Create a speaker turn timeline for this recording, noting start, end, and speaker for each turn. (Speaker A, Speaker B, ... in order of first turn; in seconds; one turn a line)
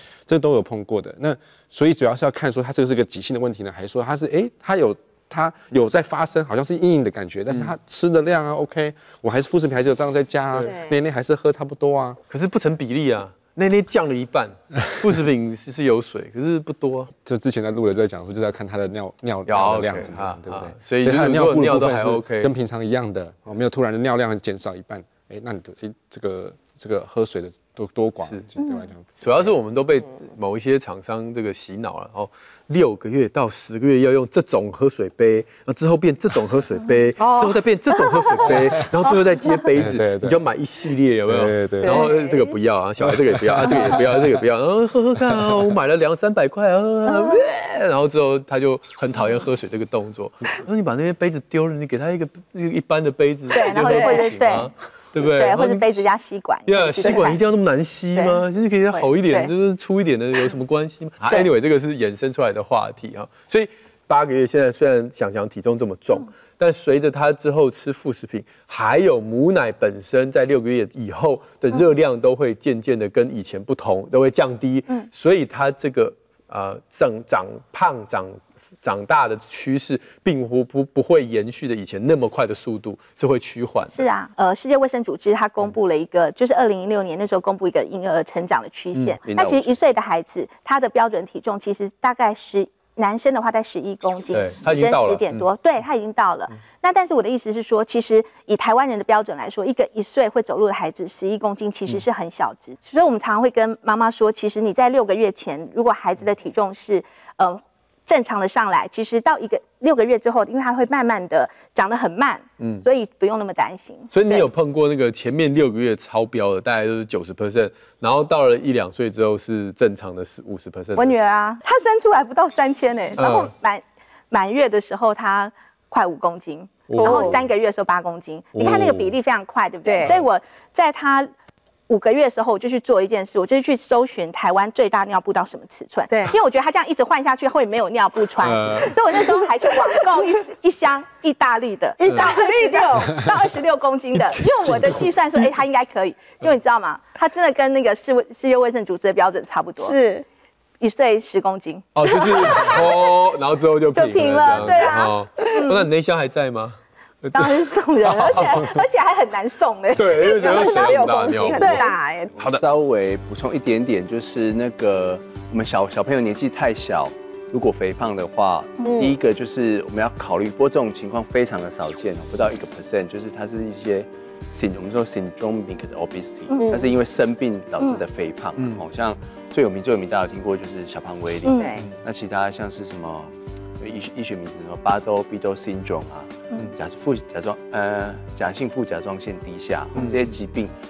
Speaker A: 0.3-12.2
Speaker B: 10.6-11.0
Speaker C: 12.3-17.1
Speaker A: 17.2-29.4
Speaker C: 19.5-22.5
Speaker C: 29.2-56.0
Speaker B: 37.2-37.5
Speaker B: 38.3-38.5
Speaker A: 39.8-40.4
Speaker A: 41.3-42.0
Speaker B: 41.8-42.5
Speaker A: 43.0-44.2
Speaker D: 53.5-54.7
Speaker D: 55.2-57.4
Speaker C: 56.7-84.0
Speaker D: 58.9-59.5
Speaker D: 84.0-114.4
Speaker E: 89.2-89.8
Speaker C: 94.3-95.5
Speaker C: 112.6-112.8
Speaker C: 114.1-121.1
Speaker D: 121.0-131.3
Speaker C: 123.2-123.5
Speaker C: 126.9-127.4
Speaker B: 127.0-127.4
Speaker C: 128.5-129.2
Speaker B: 129.8-130.2
Speaker D: 131.9-150.0
Speaker B: 136.1-136.4
Speaker C: 138.4-139.0
Speaker B: 138.8-140.2
Speaker B: 142.0-143.2
Speaker C: 142.1-142.3
Speaker C: 144.2-145.1
Speaker B: 149.8-150.2
Speaker D: 150.8-152.9
Speaker C: 151.9-158.8
Speaker B: 152.1-152.8
Speaker D: 153.9-155.8
Speaker D: 157.3-161.9
Speaker C: 159.9-162.6
Speaker B: 160.2-162.3
Speaker E: 162.4-190.7
Speaker B: 168.9-169.2
Speaker B: 176.6-177.0
Speaker C: 178.6-178.8
Speaker D: 181.4-181.7
Speaker B: 181.5-181.8
Speaker C: 189.9-190.3